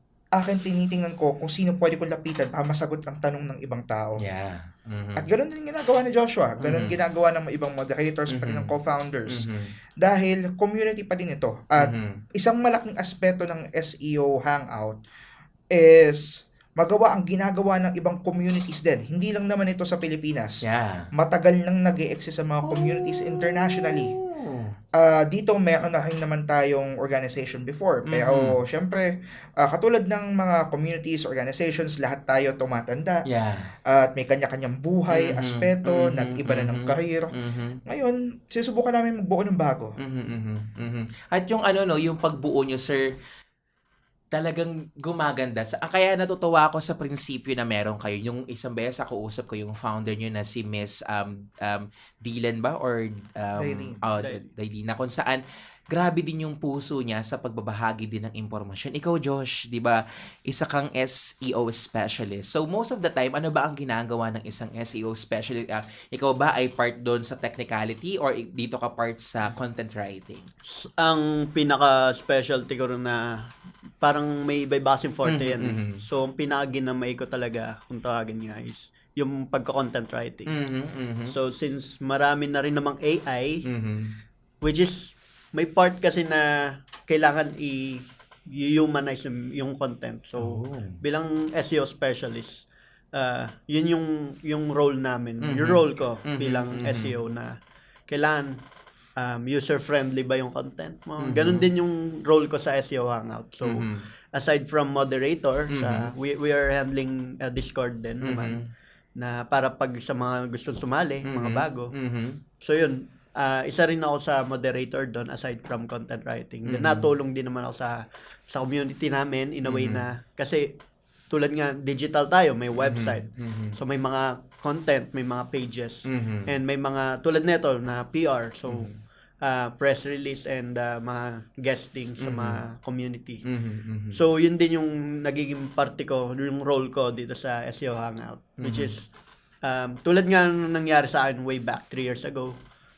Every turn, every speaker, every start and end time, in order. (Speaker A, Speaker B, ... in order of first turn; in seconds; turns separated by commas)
Speaker A: 0.4-4.2, Speaker B: 4.2-5.3, Speaker A: 5.2-9.5, Speaker B: 6.6-7.0, Speaker B: 8.3-8.7, Speaker B: 9.3-9.7, Speaker A: 10.0-15.0, Speaker B: 11.8-12.2, Speaker A: 15.7-20.6, Speaker B: 20.6-21.1, Speaker A: 21.1-24.1, Speaker B: 22.6-24.8, Speaker A: 25.0-29.1, Speaker B: 28.1-28.5, Speaker A: 29.6-33.2, Speaker B: 33.3-33.7, Speaker A: 33.9-37.3, Speaker B: 35.1-37.8, Speaker A: 37.9-40.0, Speaker B: 40.0-43.1, Speaker B: 44.3-70.5, Speaker A: 53.6-54.0, Speaker C: 54.2-54.5, Speaker C: 70.7-73.4, Speaker C: 74.0-80.5, Speaker B: 75.2-76.0, Speaker B: 80.5-81.3, Speaker C: 81.3-83.7, Speaker B: 83.7-84.2, Speaker C: 84.6-97.6, Speaker B: 90.4-91.0, Speaker B: 95.4-97.2, Speaker C: 98.1-98.6, Speaker C: 99.2-108.6, Speaker B: 101.2-101.7, Speaker B: 103.6-104.1, Speaker B: 105.7-106.1, Speaker B: 108.2-108.7, Speaker C: 109.2-111.9, Speaker B: 111.2-112.4, Speaker C: 112.6-120.8, Speaker B: 116.7-117.1, Speaker B: 119.7-120.1, Speaker C: 121.3-128.9, Speaker B: 122.8-123.8, Speaker B: 126.1-126.5, Speaker B: 128.7-129.0, Speaker C: 129.4-133.4, Speaker B: 132.2-132.6, Speaker B: 133.4-134.2, Speaker C: 134.1-139.1, Speaker B: 138.6-138.9, Speaker C: 139.6-142.5